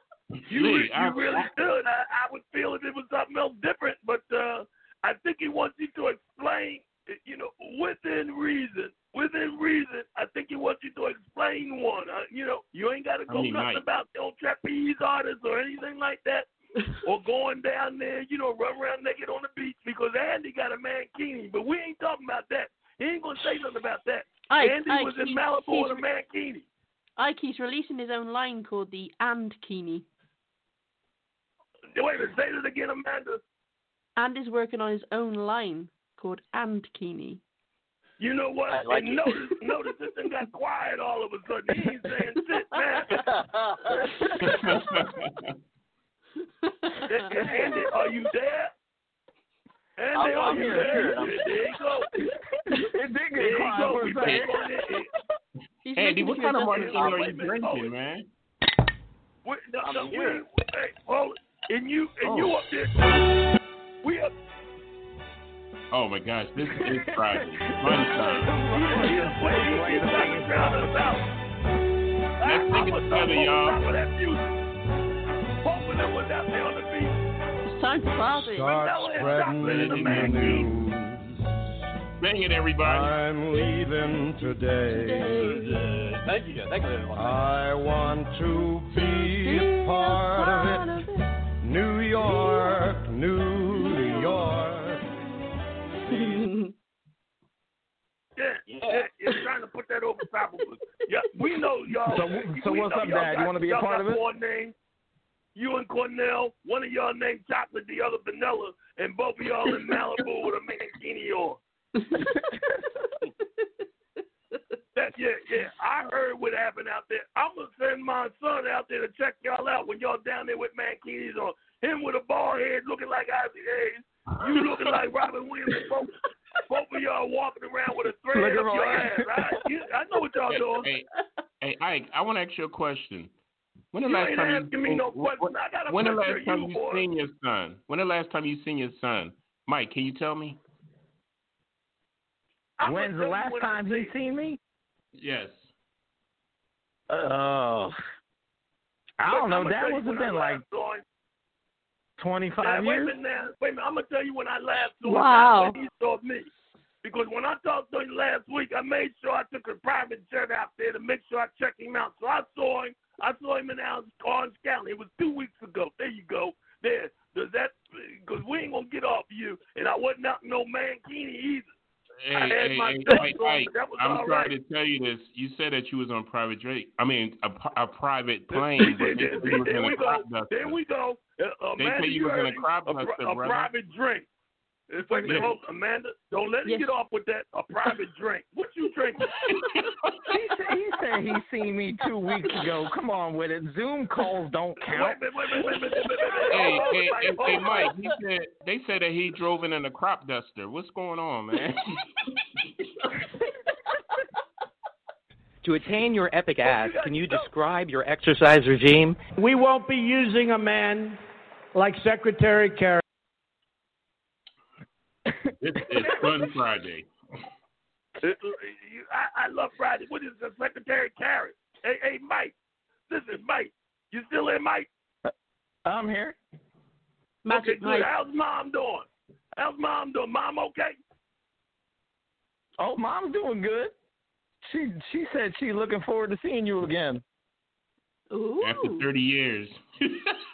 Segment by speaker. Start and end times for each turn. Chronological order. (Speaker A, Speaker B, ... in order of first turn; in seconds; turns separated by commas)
Speaker A: 0.5-16.5, Speaker B: 0.5-1.4, Speaker B: 13.3-13.8, Speaker A: 17.0-26.6, Speaker C: 24.5-26.0, Speaker C: 27.2-30.1, Speaker A: 32.0-33.4, Speaker C: 34.2-37.4, Speaker A: 38.2-43.1, Speaker D: 38.7-39.3, Speaker D: 43.1-44.0, Speaker E: 44.0-44.4, Speaker B: 44.4-45.5, Speaker C: 46.9-47.7, Speaker A: 47.1-48.7, Speaker A: 50.0-52.1, Speaker D: 50.1-51.5, Speaker E: 50.3-51.3, Speaker E: 52.2-54.6, Speaker A: 53.4-55.1, Speaker C: 55.9-57.1, Speaker B: 56.0-58.3, Speaker A: 56.7-57.9, Speaker A: 59.5-63.2, Speaker D: 59.8-60.5, Speaker B: 62.2-62.5, Speaker A: 64.0-64.3, Speaker B: 65.9-68.5, Speaker E: 66.7-71.2, Speaker A: 68.7-71.2, Speaker A: 72.4-74.5, Speaker B: 72.4-73.8, Speaker A: 75.6-77.2, Speaker C: 77.7-78.9, Speaker F: 78.2-81.2, Speaker A: 78.7-80.7, Speaker B: 79.2-80.7, Speaker B: 82.2-83.2, Speaker F: 82.8-86.0, Speaker C: 84.9-86.0, Speaker D: 86.2-87.5, Speaker F: 87.1-90.9, Speaker C: 88.9-91.3, Speaker F: 91.6-95.0, Speaker C: 92.2-93.0, Speaker C: 93.7-94.5, Speaker C: 96.1-96.7, Speaker F: 96.1-96.4, Speaker A: 98.4-104.8, Speaker D: 98.7-99.1, Speaker E: 102.1-104.2, Speaker A: 105.5-111.6, Speaker A: 115.0-126.1, Speaker A: 126.7-130.9, Speaker E: 128.3-129.6, Speaker B: 130.5-131.1, Speaker B: 131.6-133.3, Speaker B: 133.9-140.6, Speaker A: 134.1-137.1, Speaker A: 142.8-144.2, Speaker E: 142.8-144.6, Speaker B: 145.2-145.7, Speaker E: 147.1-148.0, Speaker E: 149.2-150.6, Speaker A: 149.3-151.0, Speaker E: 152.2-153.2, Speaker A: 152.6-156.5, Speaker C: 155.0-155.8, Speaker A: 157.0-171.7, Speaker B: 172.2-180.8, Speaker A: 172.3-174.5, Speaker A: 178.5-184.3, Speaker B: 181.8-183.7, Speaker A: 184.9-189.3, Speaker C: 185.1-185.4, Speaker B: 185.3-185.5, Speaker C: 186.7-186.9, Speaker B: 189.5-190.2, Speaker E: 190.3-195.2, Speaker A: 194.8-197.8, Speaker B: 196.5-201.9, Speaker G: 205.6-209.2, Speaker A: 206.7-207.5, Speaker H: 209.4-211.2, Speaker H: 211.7-213.0, Speaker B: 215.6-217.1, Speaker E: 215.9-216.5, Speaker A: 218.2-222.6, Speaker A: 223.1-224.9, Speaker E: 225.9-226.4, Speaker C: 227.4-228.1, Speaker A: 227.5-231.0, Speaker E: 232.8-233.9, Speaker E: 234.6-237.2, Speaker C: 238.3-239.1, Speaker B: 238.6-240.4